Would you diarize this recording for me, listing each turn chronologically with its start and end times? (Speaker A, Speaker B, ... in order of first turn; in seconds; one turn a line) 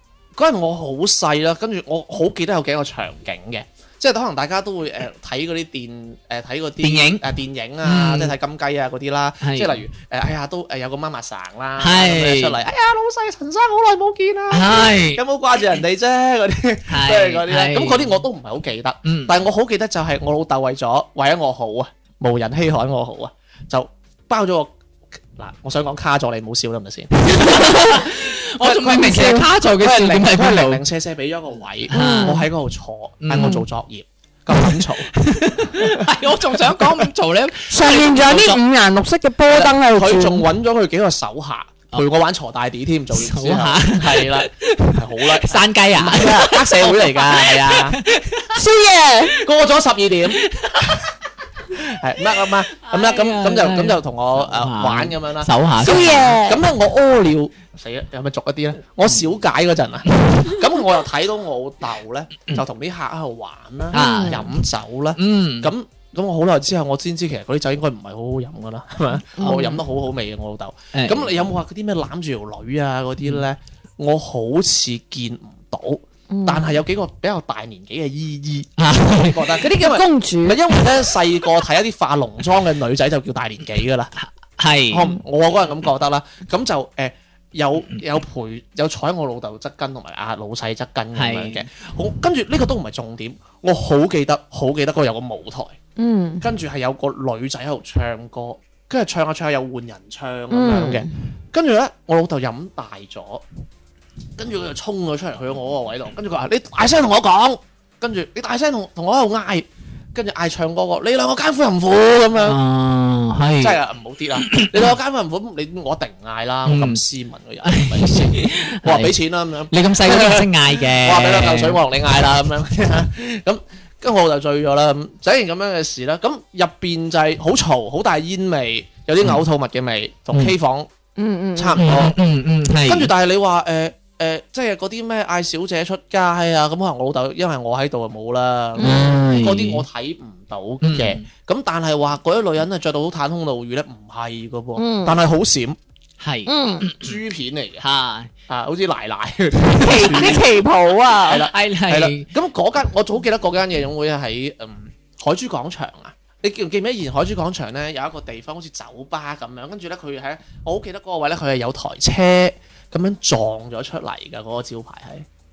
Speaker A: 0.3-24.7
Speaker B: 6.8-7.2
Speaker B: 7.8-8.3
Speaker B: 9.4-9.8
Speaker B: 11.8-12.6
Speaker B: 14.5-15.2
Speaker B: 16.9-18.1
Speaker B: 19.0-19.4
Speaker A: 25.4-28.1
Speaker B: 27.2-30.8
Speaker C: 27.4-28.1
Speaker A: 28.6-35.1
Speaker C: 28.6-29.5
Speaker B: 31.9-32.5
Speaker C: 31.9-32.4
Speaker B: 33.2-33.6
Speaker C: 33.3-33.6
Speaker B: 34.5-38.6
Speaker A: 35.6-36.1
Speaker C: 37.7-40.4
Speaker A: 39.5-48.0
Speaker B: 43.1-48.6
Speaker C: 48.5-49.3
Speaker A: 49.4-50.5
Speaker B: 50.4-51.0
Speaker A: 51.7-84.1
Speaker B: 52.7-56.4
Speaker C: 55.8-56.6
Speaker B: 60.1-60.5
Speaker C: 63.9-64.5
Speaker B: 63.9-64.5
Speaker B: 65.2-65.7
Speaker C: 69.4-69.8
Speaker B: 69.4-69.7
Speaker B: 70.9-71.4
Speaker C: 76.3-76.7
Speaker B: 78.8-79.6
Speaker C: 79.6-80.8
Speaker B: 84.2-85.1
Speaker A: 84.9-95.8
Speaker B: 91.1-91.7
Speaker C: 96.0-96.4
Speaker A: 96.4-103.4
Speaker C: 100.5-101.1
Speaker A: 104.4-112.6
Speaker B: 112.4-113.8
Speaker A: 113.6-130.9
Speaker B: 114.3-114.9
Speaker B: 116.7-117.0
Speaker B: 117.6-119.2
Speaker B: 119.7-121.8
Speaker C: 131.2-131.8
Speaker A: 131.6-132.2
Speaker B: 131.8-133.1
Speaker A: 132.8-145.8
Speaker B: 138.8-139.8
Speaker C: 138.8-139.1
Speaker B: 140.8-141.2
Speaker C: 144.8-145.2
Speaker B: 146.2-147.2
Speaker C: 146.4-146.8
Speaker A: 147.0-147.8
Speaker B: 147.8-148.3
Speaker A: 148.5-150.4
Speaker C: 149.7-151.5
Speaker B: 149.9-150.3
Speaker A: 151.3-165.3
Speaker B: 151.5-152.3